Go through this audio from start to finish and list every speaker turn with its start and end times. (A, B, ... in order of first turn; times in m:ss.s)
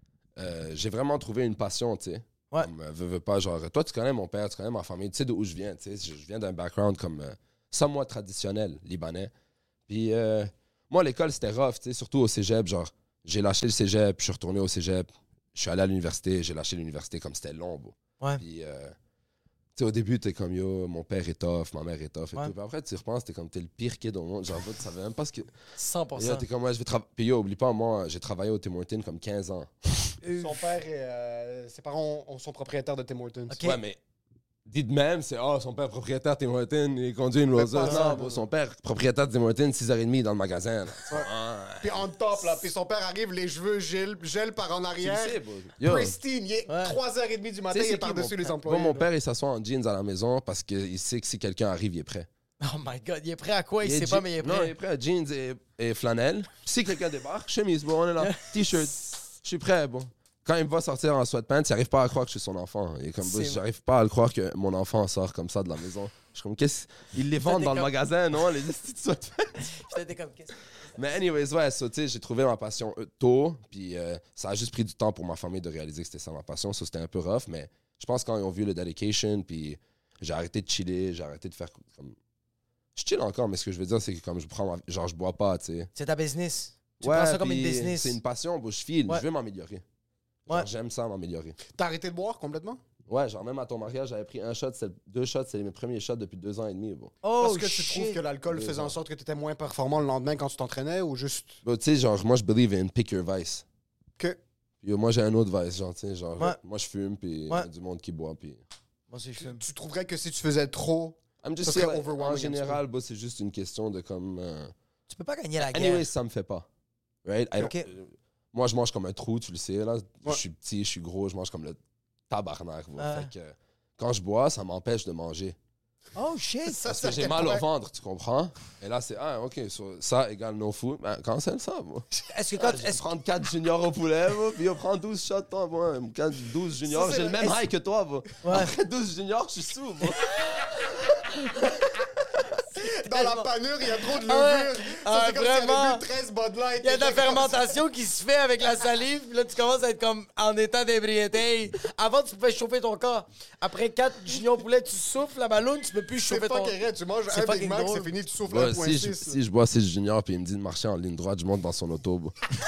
0:00.4-0:09.3 A
0:09.9-0:18.9 A
0:19.8-0:25.5 A
0:25.8-0:26.4 B
0:26.2-0:30.2 A
0:30.2-0:30.6 B
0:30.3-0:33.6 C
0:33.5-0:33.8 B
0:33.6-0:34.0 A
0:34.6-0:42.6 A
0:37.6-0:38.4 C
0:37.8-0:38.2 B
0:41.8-0:49.1 C
0:45.0-0:46.2 A
0:46.7-0:47.0 B
0:47.7-0:52.3 A
0:52.6-0:54.7 B
0:53.8-1:09.8 A
0:58.2-0:58.6 B
1:03.2-1:03.6 B
1:07.4-1:07.9 B
1:09.6-1:10.6 B
1:10.9-1:22.2 A
1:23.0-1:25.9 A
1:25.9-1:28.2 B
1:27.0-1:29.8 A
1:30.5-1:31.6 A
1:31.7-1:32.8 C
1:33.1-1:37.2 A
1:37.2-1:38.2 B
1:37.4-1:41.6 C
1:38.5-1:38.9 A
1:41.6-1:43.6 A
1:44.8-1:48.6 A
1:49.1-1:49.6 B
1:49.4-1:52.8 C
1:51.4-1:54.7 A
1:55.1-1:56.1 B
1:55.6-1:56.7 A
1:57.2-2:05.6 A
1:57.6-1:57.8 B
2:03.0-2:03.3 B
2:06.2-2:07.1 B
2:06.7-2:07.6 C
2:06.8-2:20.7 A
2:12.3-2:13.0 B
2:16.9-2:17.6 C
2:18.4-2:18.7 B
2:22.7-2:27.7 C
2:22.8-2:23.5 B
2:24.0-2:26.0 B
2:26.8-2:36.7 B
2:36.2-2:39.4 C
2:37.3-2:38.1 B
2:38.5-2:42.3 A